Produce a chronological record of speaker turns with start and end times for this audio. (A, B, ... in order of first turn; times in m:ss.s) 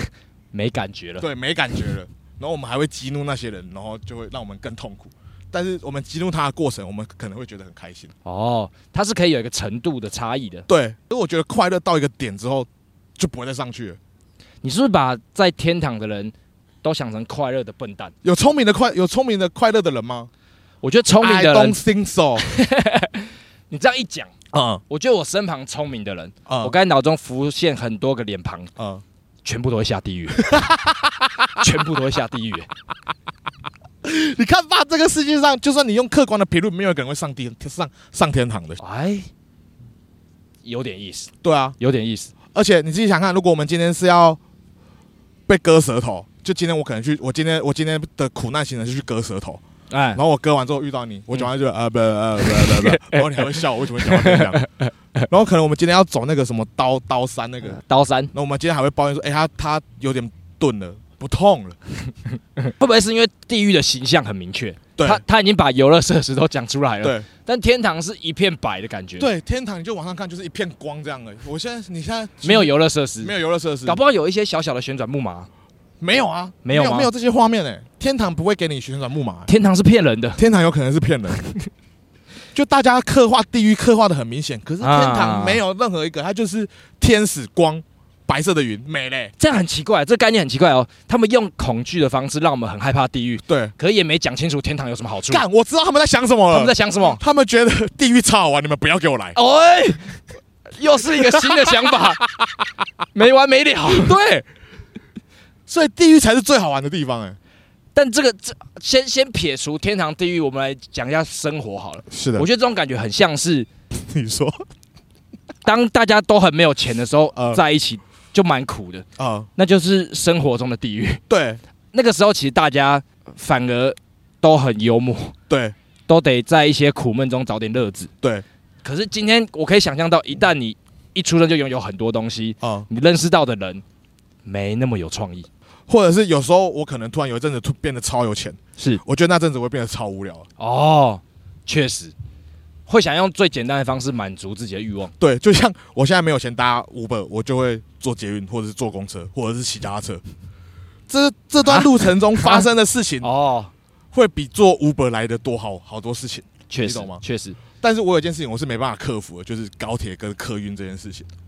0:00.5-0:01.2 A
0:01.2-0:08.1 B
0:08.2-0:10.7 A
0:10.7-0:14.0 B
0:14.6-0:18.1 A
0:18.2-0:20.3 B
0:20.8-0:21.8 A
0:21.2-0:22.4 B
0:22.4-0:24.3 A
0:24.5-0:24.8 B
0:24.9-0:28.7 A
0:26.4-0:26.7 B
0:28.8-0:29.0 B
0:29.4-0:30.6 A
0:30.4-0:31.5 B
0:31.6-0:32.7 A
0:34.0-0:38.8 B
0:38.8-0:39.3 A
0:40.6-0:42.3 A
0:41.4-0:41.8 B
0:42.5-0:44.4 B
0:45.5-0:49.6 B
0:49.9-0:50.2 A
0:50.1-0:54.6 B
0:52.4-0:55.2 A
0:55.3-0:57.8 B
0:57.7-0:58.3 A
0:58.3-1:01.8 B
1:02.6-1:09.3 A
1:05.0-1:05.2 B
1:09.2-1:14.0 B
1:12.4-1:13.3 A
1:13.8-1:15.5 A
1:16.0-1:19.5 B
1:16.6-1:17.1 A
1:19.5-1:20.4 A
1:20.4-1:21.5 B
1:22.5-1:29.3 B
1:24.8-1:25.6 A
1:29.4-1:35.4 A
1:33.5-1:33.7 B
1:35.3-1:39.4 B
1:36.5-1:37.2 A
1:39.3-1:40.2 A
1:40.8-1:42.2 A
1:41.1-1:42.7 B
1:43.1-1:44.2 A
1:43.9-1:44.5 B
1:45.7-1:47.4 B
1:47.9-1:53.7 A
1:52.1-1:52.5 B
1:53.9-1:54.6 B
1:55.6-1:59.0 A
1:57.4-1:57.6 B
1:59.2-1:59.5 B
1:59.6-2:01.2 A
2:01.3-2:01.6 B
2:01.9-2:05.3 A
2:05.5-2:05.7 B
2:06.1-2:08.1 A
2:08.8-2:13.8 A
2:12.6-2:12.9 B
2:14.4-2:15.5 A
2:15.9-2:20.5 B
2:20.6-2:22.1 A
2:22.9-2:25.1 A
2:25.2-2:30.2 B
2:31.1-2:33.3 B
2:31.6-2:32.6 A
2:33.2-2:33.7 A
2:34.1-2:37.2 B
2:36.7-2:37.6 A
2:37.8-2:41.3 B